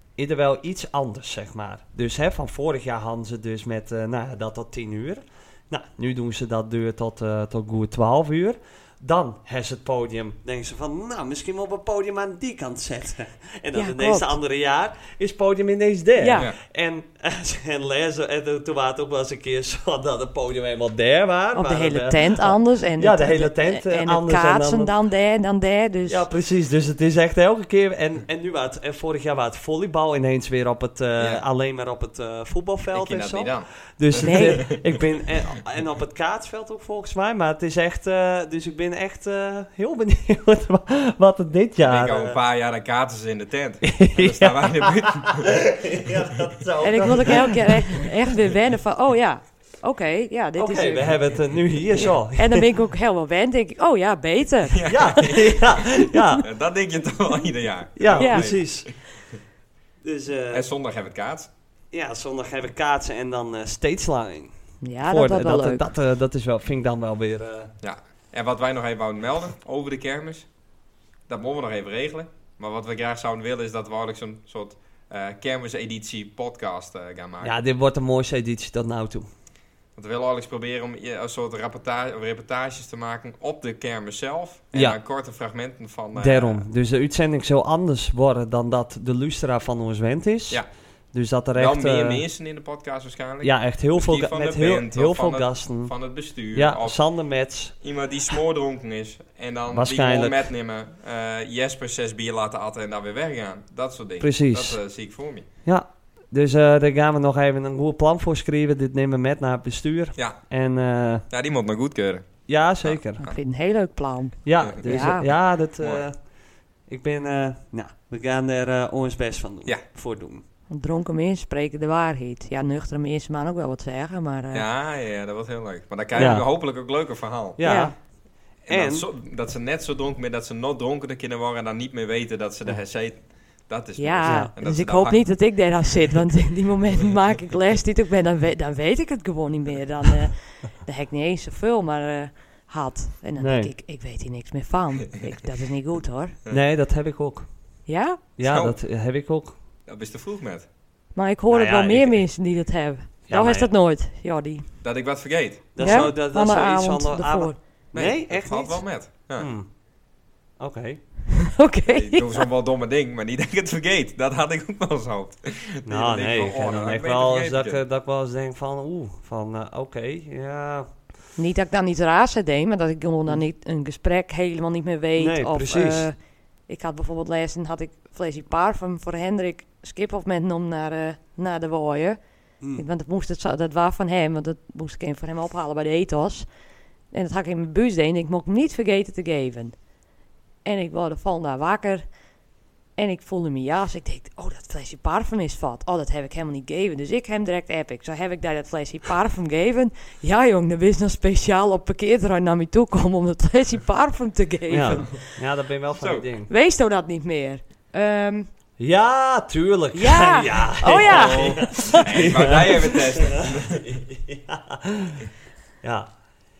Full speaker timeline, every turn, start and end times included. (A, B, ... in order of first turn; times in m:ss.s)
0:00.2-0:24.9 A
0:13.7-0:14.3 B
0:16.2-0:16.5 B
0:21.5-0:26.2 B
0:26.1-0:42.4 A
0:31.2-0:31.4 C
0:32.9-0:35.0 C
0:34.2-0:34.6 B
0:41.8-0:45.5 C
0:43.8-0:48.0 A
0:46.8-0:51.3 B
0:50.6-0:52.7 A
0:52.4-0:55.4 B
0:54.7-0:55.7 C
0:54.9-0:56.4 A
0:56.4-0:58.9 C
0:58.0-0:58.9 A
0:58.2-0:58.7 B
1:00.0-1:00.7 A
1:00.5-1:01.5 C
1:01.9-1:07.7 A
1:04.8-1:05.9 B
1:07.8-1:10.5 C
1:11.3-1:17.5 C
1:17.4-1:19.3 A
1:20.0-1:26.6 C
1:26.2-1:32.2 A
1:31.5-1:37.0 C
1:33.4-1:35.9 A
1:36.5-1:37.7 A
1:37.8-1:45.4 C
1:39.7-1:40.4 A
1:44.2-1:44.8 A
1:45.6-1:51.3 A
1:51.3-1:53.3 C
1:52.5-1:53.3 A
1:53.3-1:55.3 B
1:54.4-1:56.2 A
1:56.9-2:00.4 A
2:00.7-2:04.7 B
2:04.5-2:07.7 C
2:06.2-2:06.5 A
2:07.6-2:07.9 A
2:07.6-2:07.9 B
2:08.6-2:15.2 C
2:08.7-2:09.1 A
2:14.0-2:26.4 B
2:14.2-2:14.5 A
2:23.4-2:23.7 A
2:26.5-2:27.5 A
2:27.9-2:28.2 B
2:28.4-2:29.6 A
2:28.4-2:28.8 C
2:29.9-2:30.6 C
2:31.1-2:34.7 B
2:31.5-2:32.2 A
2:33.3-2:33.7 A
2:34.8-2:36.1 C
2:35.7-2:39.7 A
2:35.8-2:37.6 B
2:37.9-2:39.5 C
2:40.6-2:41.0 A
2:41.3-2:42.5 B
2:41.8-2:47.8 C
2:45.8-2:50.9 A
2:51.4-2:56.1 B
2:55.2-2:56.1 A
2:56.7-3:02.2 B
3:02.7-3:06.5 B
3:07.1-3:09.7 B
3:10.6-3:12.0 B
3:13.0-3:25.3 B
3:24.7-3:26.5 A
3:26.0-3:26.3 C
3:26.5-3:28.5 B
3:28.8-3:35.3 A
3:29.9-3:32.3 B
3:31.0-3:34.0 C
3:35.8-3:36.1 A